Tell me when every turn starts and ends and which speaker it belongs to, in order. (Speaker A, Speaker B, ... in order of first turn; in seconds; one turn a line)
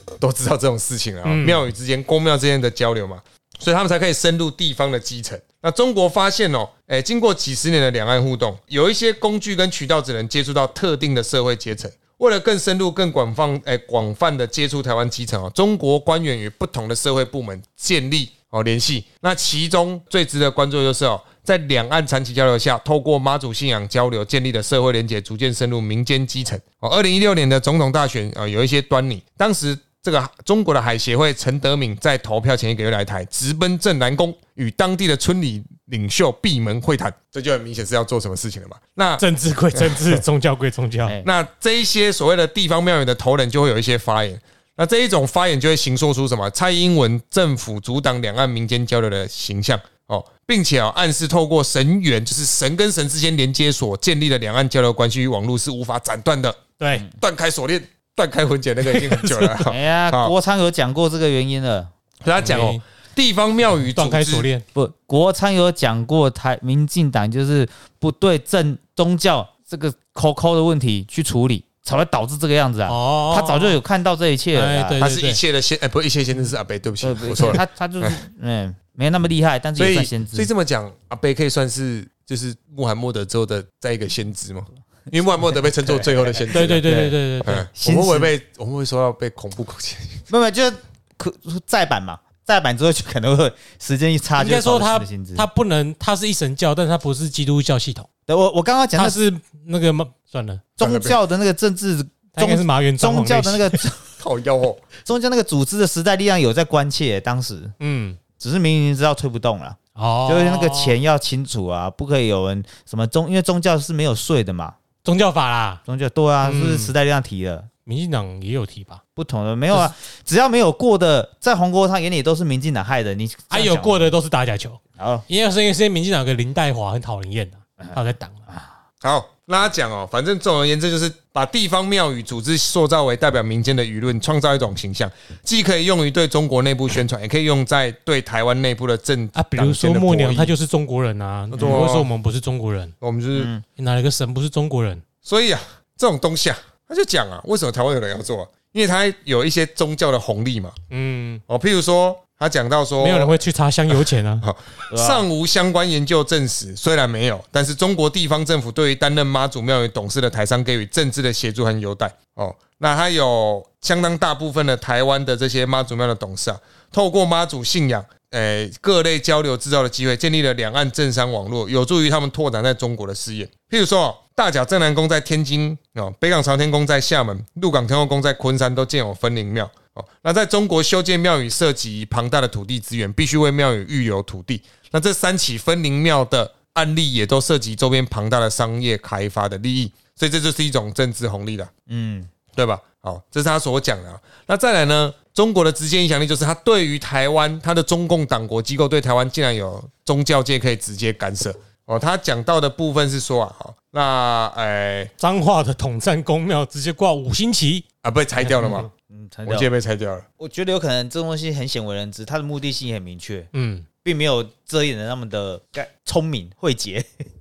Speaker A: 0.2-40.1
Speaker B: 1.2-1.7
Speaker B: 39.2-41.2
Speaker A: 41.2-56.6
Speaker B: 56.8-57.0
Speaker A: 57.2-60.3
Speaker B: 58.9-59.5
Speaker C: 59.7-61.9
Speaker A: 62.2-64.5
Speaker B: 62.4-62.8
Speaker B: 63.9-64.6
Speaker C: 64.7-75.0
Speaker B: 72.9-73.8
Speaker B: 74.5-75.4
Speaker A: 75.0-78.2
Speaker C: 77.0-80.5
Speaker A: 79.8-86.9
Speaker C: 85.9-87.2
Speaker B: 86.5-87.6
Speaker A: 87.4-90.2
Speaker C: 87.7-88.3
Speaker C: 90.3-95.5
Speaker B: 94.4-98.1
Speaker C: 98.3-99.2
Speaker B: 99.0-100.6
Speaker C: 100.8-104.0
Speaker A: 100.8-101.2
Speaker B: 102.3-103.8
Speaker A: 104.2-104.8
Speaker C: 105.0-107.7
Speaker B: 107.8-108.2
Speaker C: 108.4-114.8
Speaker B: 110.0-111.0
Speaker B: 115.0-115.8
Speaker C: 115.9-117.7
Speaker B: 116.4-116.9
Speaker B: 117.8-119.0
Speaker C: 119.2-124.1
Speaker B: 123.5-128.4
Speaker C: 125.0-125.2
Speaker A: 129.0-140.5
Speaker B: 139.3-142.9
Speaker A: 141.5-142.1
Speaker C: 141.6-141.8
Speaker A: 143.0-143.5
Speaker C: 143.3-143.6
Speaker B: 143.8-145.0
Speaker A: 145.2-150.8
Speaker B: 150.9-151.4
Speaker A: 151.5-153.4
Speaker B: 153.0-154.4
Speaker A: 154.4-191.7
Speaker C: 154.9-155.2
Speaker C: 191.9-192.3
Speaker A: 192.5-205.1
Speaker B: 205.2-207.8
Speaker A: 208.0-208.9
Speaker B: 208.4-208.8
Speaker C: 208.7-209.7
Speaker A: 209.4-210.2
Speaker C: 210.4-213.5
Speaker B: 213.5-213.8
Speaker C: 214.0-217.2